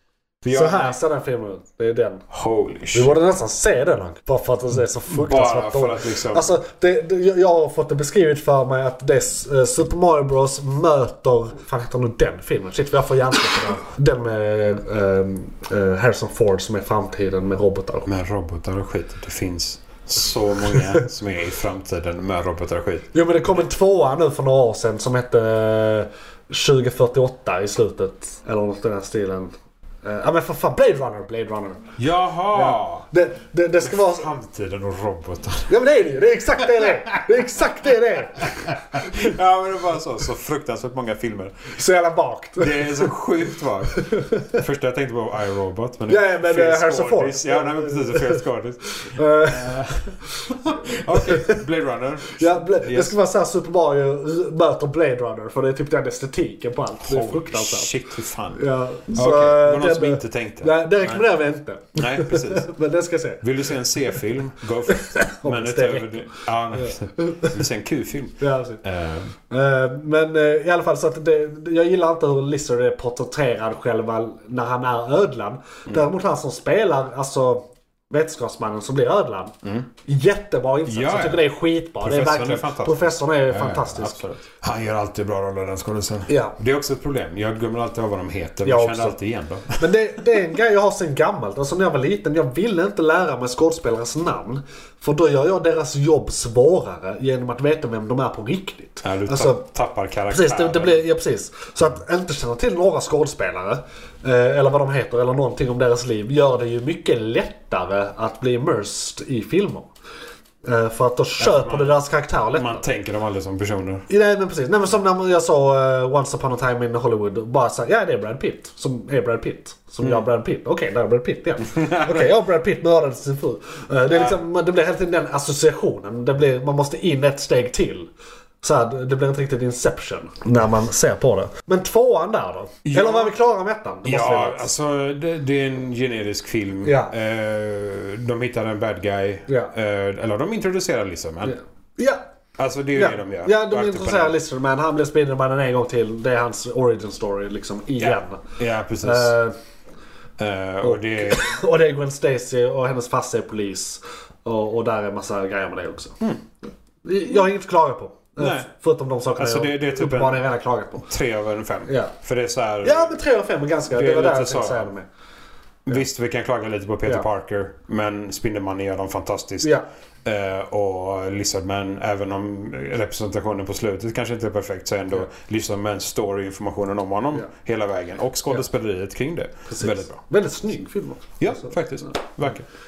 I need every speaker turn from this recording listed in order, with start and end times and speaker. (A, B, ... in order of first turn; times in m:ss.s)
0:00.4-0:01.0 A
0:00.5-0:02.2 B
0:02.3-0:03.2 A
0:02.9-0:18.1 B
0:05.1-0:06.5 A
0:18.0-0:23.1 A
0:23.1-0:29.5 B
0:30.0-0:31.9 B
0:32.0-0:33.1 A
0:32.5-0:34.3 B
0:33.8-0:35.7 A
0:35.7-0:39.3 B
0:36.6-0:37.2 A
0:38.4-0:41.7 A
0:41.7-0:43.1 B
0:42.6-0:53.1 A
0:44.0-0:44.6 B
0:46.1-0:51.6 B
0:52.3-0:57.9 B
0:57.0-1:01.3 A
0:58.5-1:03.4 B
1:01.9-1:02.7 A
1:03.4-1:09.3 A
1:04.9-1:07.6 B
1:08.4-1:08.8 B
1:09.5-1:24.2 B
1:20.8-1:29.9 A
1:26.3-1:26.6 B
1:28.6-1:29.2 B
1:29.8-1:39.6 B
1:39.0-1:41.0 A
1:40.3-1:49.9 B
1:50.6-1:52.8 B
1:51.4-1:52.0 A
1:52.5-1:54.1 A
1:54.1-2:08.1 B
2:01.7-2:02.3 A
2:04.1-2:04.4 A
2:08.6-2:14.7 B
2:12.8-2:13.3 A
2:14.0-2:21.6 A
2:16.8-2:17.1 B
2:19.5-2:19.7 B
2:21.4-2:22.2 B
2:22.6-2:24.4 A
2:22.9-2:28.4 B
2:28.0-2:29.4 A
2:29.0-2:29.6 B
2:30.4-2:31.5 A
2:30.8-2:36.2 B
2:37.0-2:41.1 B
2:38.4-2:38.7 A
2:39.4-2:40.4 A
2:41.0-2:43.2 A
2:41.8-2:42.1 B
2:42.8-2:45.0 B
2:43.9-2:44.9 A
2:45.8-3:00.2 A
2:59.7-3:02.1 B
3:01.4-3:02.6 A